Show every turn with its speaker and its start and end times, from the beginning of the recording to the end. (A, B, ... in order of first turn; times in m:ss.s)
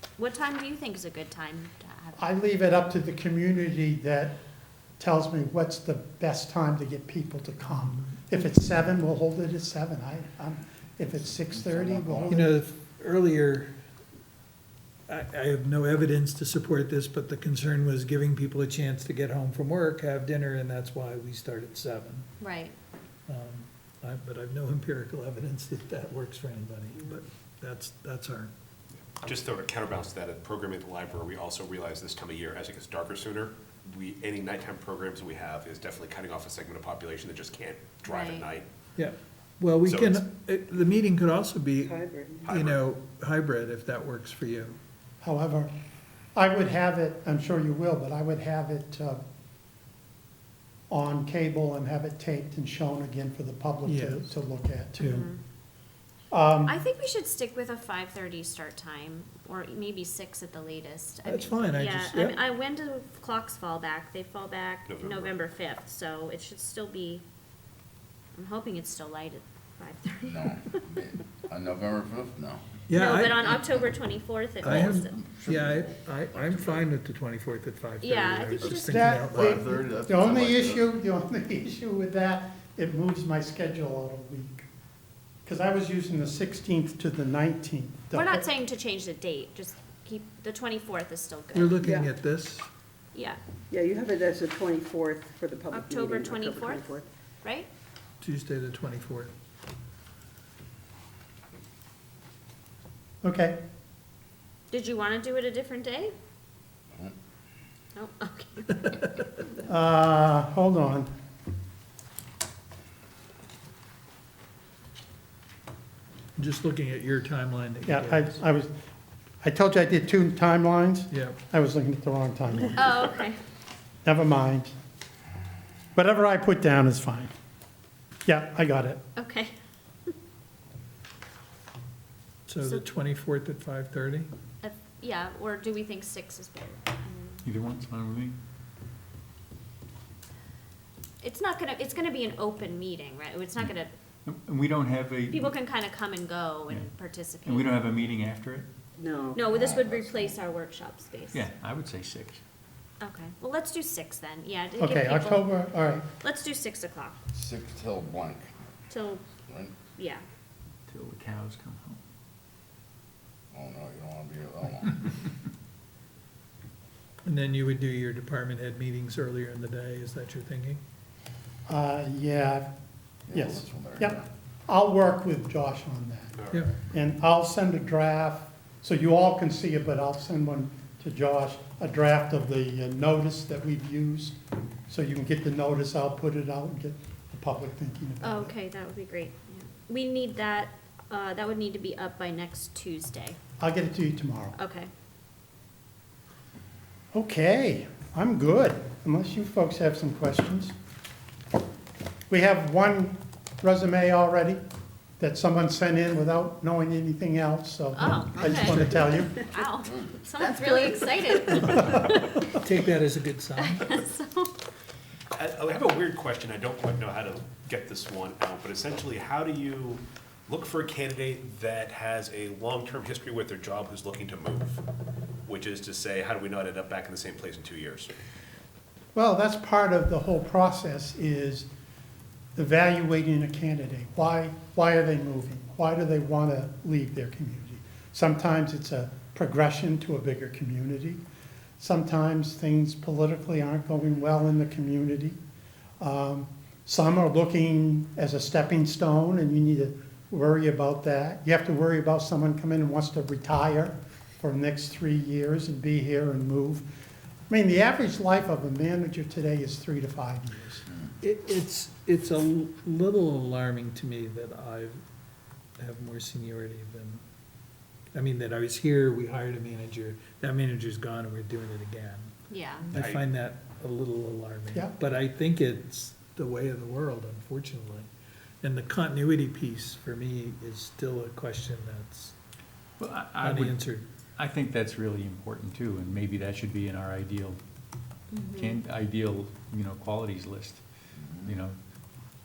0:00.2-0:02.2 A
0:02.2-0:04.4 B
0:05.0-0:12.5 B
0:11.2-0:12.4 C
0:12.3-0:13.7 D
0:15.1-0:22.3 D
0:22.4-0:22.8 A
0:23.3-0:28.5 D
0:29.2-0:38.7 E
0:38.0-0:38.5 A
0:38.9-0:44.8 D
0:39.8-0:40.3 E
0:41.8-0:42.4 F
0:42.4-0:42.8 E
0:45.2-0:45.7 B
0:46.3-0:49.2 B
0:50.9-0:55.3 B
0:53.8-0:54.3 D
0:55.0-0:55.4 A
0:56.3-0:56.8 B
0:56.6-1:07.2 A
1:01.2-1:02.4 D
1:04.9-1:05.4 E
1:08.4-1:10.8 A
1:10.2-1:12.6 C
1:12.9-1:13.9 D
1:12.9-1:15.1 A
1:14.6-1:19.7 D
1:14.6-1:16.9 C
1:18.0-1:19.2 A
1:18.9-1:24.6 B
1:19.2-1:20.8 C
1:25.4-1:28.4 B
1:28.1-1:31.8 A
1:31.5-1:32.7 D
1:33.1-1:33.4 A
1:33.7-1:37.0 F
1:35.7-1:37.7 A
1:38.2-1:39.3 D
1:43.2-1:43.6 B
1:44.7-1:46.1 A
1:47.9-1:49.0 A
1:49.6-1:51.1 B
1:56.4-1:58.4 D
1:57.8-1:58.7 B
1:59.4-2:02.8 B
2:01.1-2:01.4 D
2:02.7-2:03.4 A
2:04.0-2:04.7 B
2:05.9-2:07.3 B
2:08.2-2:09.0 B
2:09.2-2:09.5 A
2:12.5-2:14.3 D
2:14.6-2:17.4 A
2:17.4-2:18.4 G
2:21.2-2:23.9 A
2:24.2-2:25.6 G
2:25.3-2:27.7 A
2:27.4-2:28.7 G
2:29.0-2:29.5 F
2:29.3-2:31.4 A
2:29.5-2:30.4 C
2:31.3-2:32.4 G
2:33.0-2:35.6 A
2:34.8-2:36.0 B
2:36.2-2:37.2 A
2:37.3-2:38.5 C
2:38.9-2:39.2 A
2:39.5-2:39.7 C
2:39.9-2:40.2 A
2:40.9-2:42.0 G
2:43.5-2:45.0 C
2:47.2-2:50.8 D
2:51.7-2:52.7 B
2:53.3-2:54.3 C
2:53.3-3:04.4 B
3:04.9-3:08.5 B
3:08.2-3:13.4 A
3:13.6-3:14.6 B
3:14.5-3:14.9 A
3:17.1-3:20.7 B
3:22.3-3:24.6 B
3:25.2-3:29.3 B
3:27.9-3:32.4 A
3:28.7-3:29.0 D
3:31.5-3:33.9 D
3:33.6-3:34.5 A
3:35.3-3:44.8 E
3:45.4-3:48.1 E
3:49.1-3:51.7 B
3:52.5-4:01.2 B
4:01.8-4:05.4 B
4:06.0-4:16.9 B
4:17.5-4:20.8 B
4:21.2-4:25.0 D
4:25.8-4:27.2 D
4:28.1-4:32.3 D
4:32.5-4:32.9 A
4:32.9-4:38.1 D
4:32.9-4:33.2 E
4:38.6-4:42.3 D
4:43.0-4:43.8 G
4:43.4-4:44.0 D
4:44.4-4:47.6 G
4:48.3-4:48.8 A
4:48.5-4:50.8 G
4:51.4-4:51.8 G